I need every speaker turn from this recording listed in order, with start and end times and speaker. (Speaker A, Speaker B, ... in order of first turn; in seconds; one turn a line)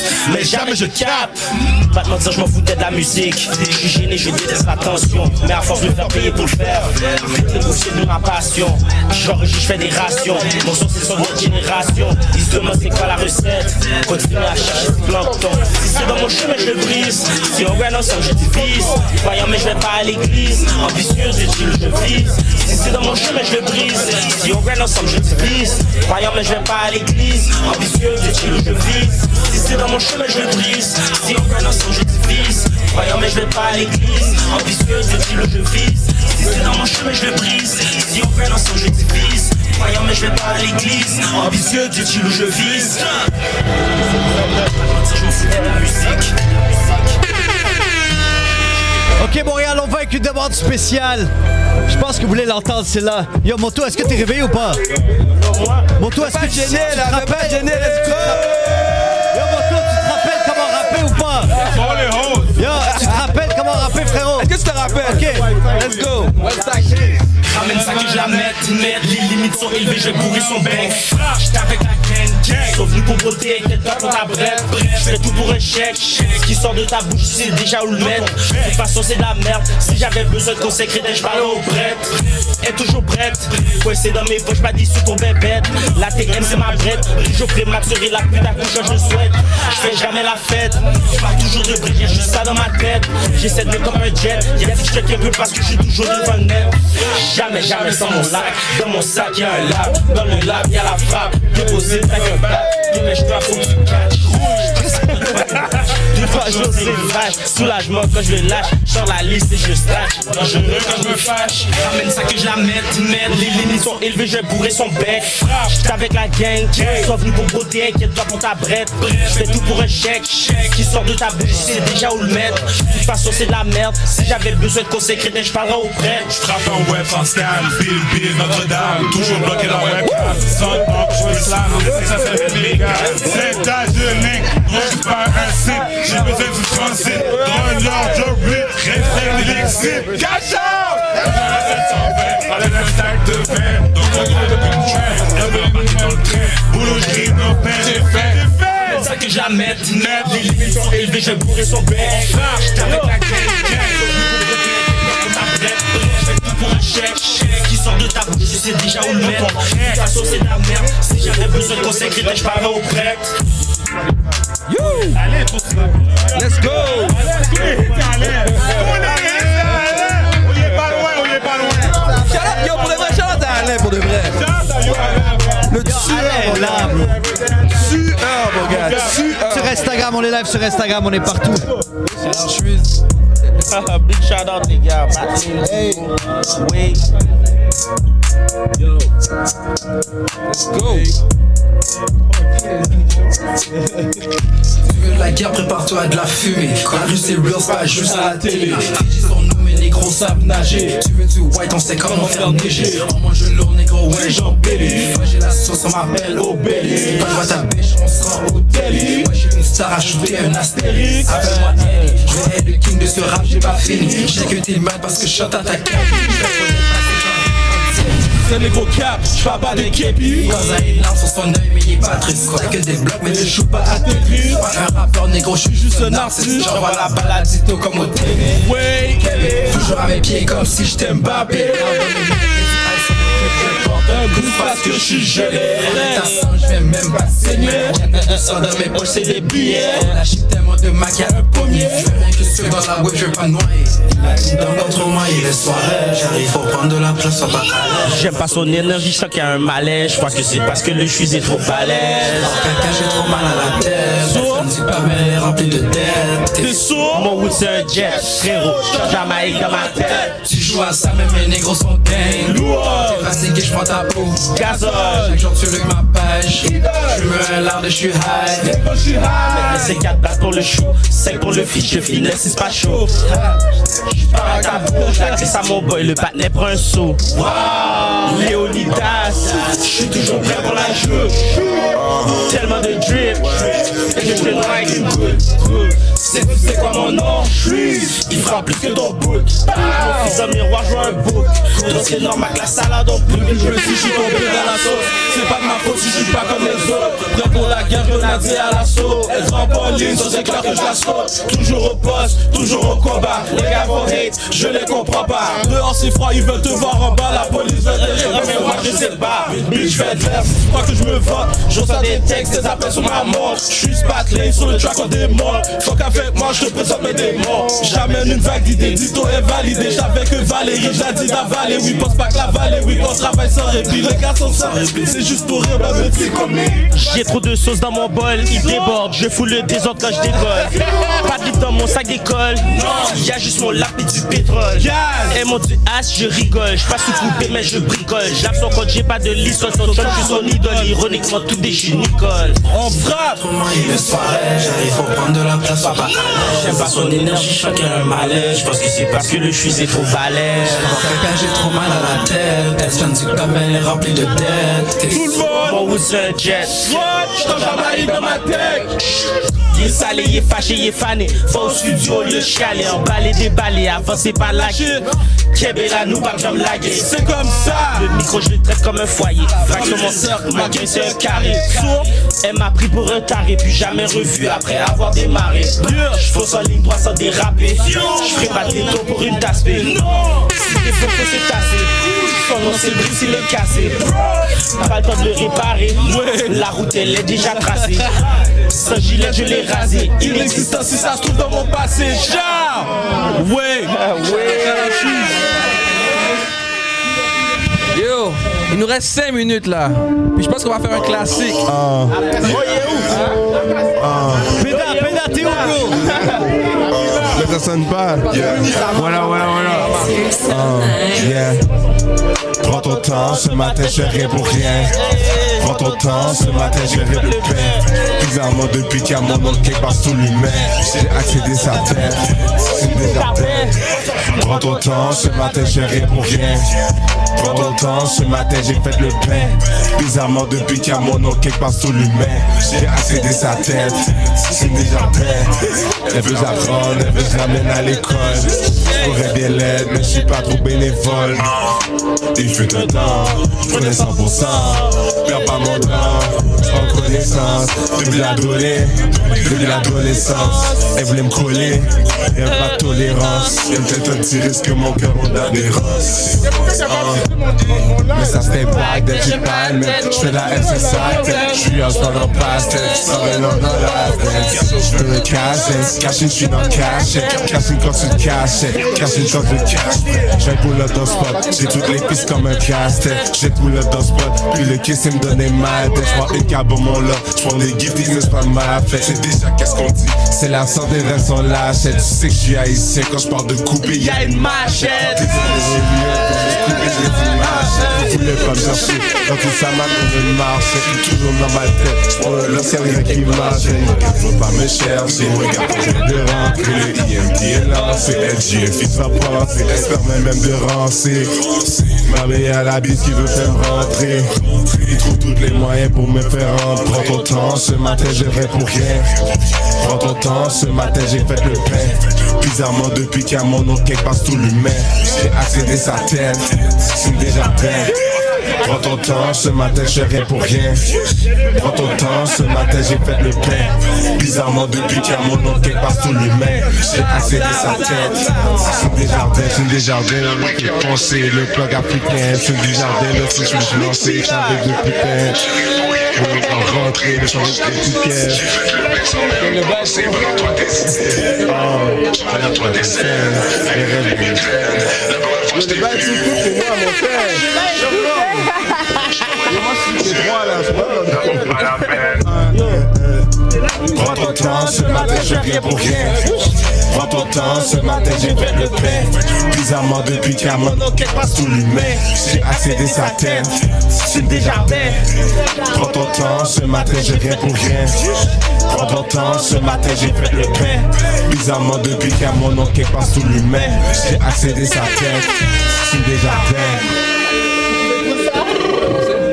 Speaker A: 0.2-43.2
Speaker B: 0.3-1.3
Speaker B: 5.6-6.8
Speaker B: 41.5-41.9
Speaker A: 44.6-46.3
Speaker C: 49.2-51.3
Speaker C: 51.9-54.8
Speaker A: 55.3-55.9
Speaker C: 56.0-58.5
Speaker D: 56.2-58.7
Speaker C: 59.3-61.5
Speaker E: 61.9-62.2
Speaker C: 62.5-65.7
Speaker D: 62.8-63.1
Speaker D: 64.4-66.8
Speaker A: 67.4-126.5
Speaker B: 126.5-148.8
Speaker A: 148.7-163.3
Speaker D: 164.7-165.2
Speaker A: 165.3-165.6
Speaker D: 166.3-167.2
Speaker B: 167.4-172.1
Speaker D: 172.2-174.5
Speaker B: 174.5-175.6
Speaker D: 175.7-176.8
Speaker C: 175.7-177.2
Speaker D: 177.7-179.8
Speaker C: 178.6-181.7
Speaker B: 178.6-179.2
Speaker D: 182.2-182.9
Speaker A: 183.7-187.0
Speaker D: 190.7-191.1
Speaker F: 194.8-218.1
Speaker E: 198.2-198.8
Speaker E: 204.1-205.1
Speaker E: 206.3-207.3
Speaker E: 208.7-209.3
Speaker E: 210.8-211.3
Speaker E: 218.4-220.5
Speaker F: 219.7-248.5
Speaker E: 224.1-224.6
Speaker E: 225.8-226.5
Speaker A: 226.4-227.5
Speaker E: 228.6-229.2
Speaker E: 234.1-236.3
Speaker E: 237.4-238.0
Speaker A: 238.1-240.2
Speaker E: 239.5-239.9
Speaker A: 248.0-252.6
Speaker F: 252.4-256.9
Speaker A: 254.2-254.7
Speaker A: 256.6-260.3
Speaker E: 256.7-257.3
Speaker F: 260.4-268.8
Speaker E: 262.4-263.2
Speaker A: 264.5-265.4
Speaker E: 264.6-265.2
Speaker E: 266.6-267.1
Speaker E: 268.7-269.9
Speaker A: 269.4-273.1
Speaker E: 271.8-273.1
Speaker A: 274.1-277.5
Speaker E: 274.7-275.0
Speaker E: 277.4-278.2
Speaker A: 278.1-281.9
Speaker G: 282.0-282.4
Speaker A: 282.4-295.2
Speaker E: 293.3-298.5
Speaker A: 296.4-301.0
Speaker E: 299.2-326.9
Speaker A: 303.4-304.5
Speaker A: 307.9-310.2
Speaker A: 311.6-313.5
Speaker A: 317.9-318.4
Speaker A: 326.9-342.6
Speaker E: 330.8-331.1
Speaker E: 334.8-335.4
Speaker E: 339.7-340.9
Speaker E: 342.7-343.4
Speaker F: 342.8-347.2
Speaker A: 346.3-350.9
Speaker F: 350.6-355.4
Speaker E: 355.1-356.1
Speaker A: 355.6-365.0
Speaker E: 356.6-358.9
Speaker E: 364.5-365.0
Speaker A: 365.5-367.2
Speaker E: 366.9-368.1
Speaker A: 367.8-390.8
Speaker E: 369.7-372.1
Speaker E: 375.8-376.1
Speaker E: 382.6-383.4
Speaker E: 386.1-386.4
Speaker E: 389.1-395.4
Speaker A: 393.9-394.9
Speaker D: 397.9-401.6
Speaker G: 401.6-402.6
Speaker A: 402.1-403.3
Speaker G: 403.9-404.5
Speaker C: 404.6-406.1
Speaker A: 404.6-406.4
Speaker G: 406.9-411.7
Speaker E: 408.3-410.1
Speaker G: 412.6-414.9
Speaker A: 412.6-417.8
Speaker G: 415.6-423.8
Speaker A: 422.8-426.1
Speaker G: 424.3-426.7
Speaker G: 427.4-441.6
Speaker A: 438.9-439.3
Speaker G: 442.3-457.3
Speaker A: 442.7-444.9
Speaker A: 452.4-453.5
Speaker G: 458.1-509.1
Speaker A: 483.8-485.5
Speaker A: 487.5-487.9
Speaker G: 509.8-517.9
Speaker G: 518.6-520.9
Speaker G: 521.5-535.5
Speaker E: 526.8-529.0
Speaker A: 533.7-534.8
Speaker G: 536.1-546.4
Speaker B: 545.5-547.4
Speaker A: 547.5-549.5
Speaker B: 549.8-551.2
Speaker G: 551.1-552.1
Speaker B: 552.2-552.6
Speaker A: 552.5-552.9
Speaker A: 553.9-559.1
Speaker G: 553.9-556.2
Speaker G: 556.8-563.5
Speaker A: 560.5-563.5
Speaker A: 564.0-565.0
Speaker G: 564.0-564.9
Speaker G: 565.7-568.0
Speaker A: 566.7-567.8
Speaker G: 568.7-576.9
Speaker A: 568.7-570.9
Speaker A: 573.5-573.8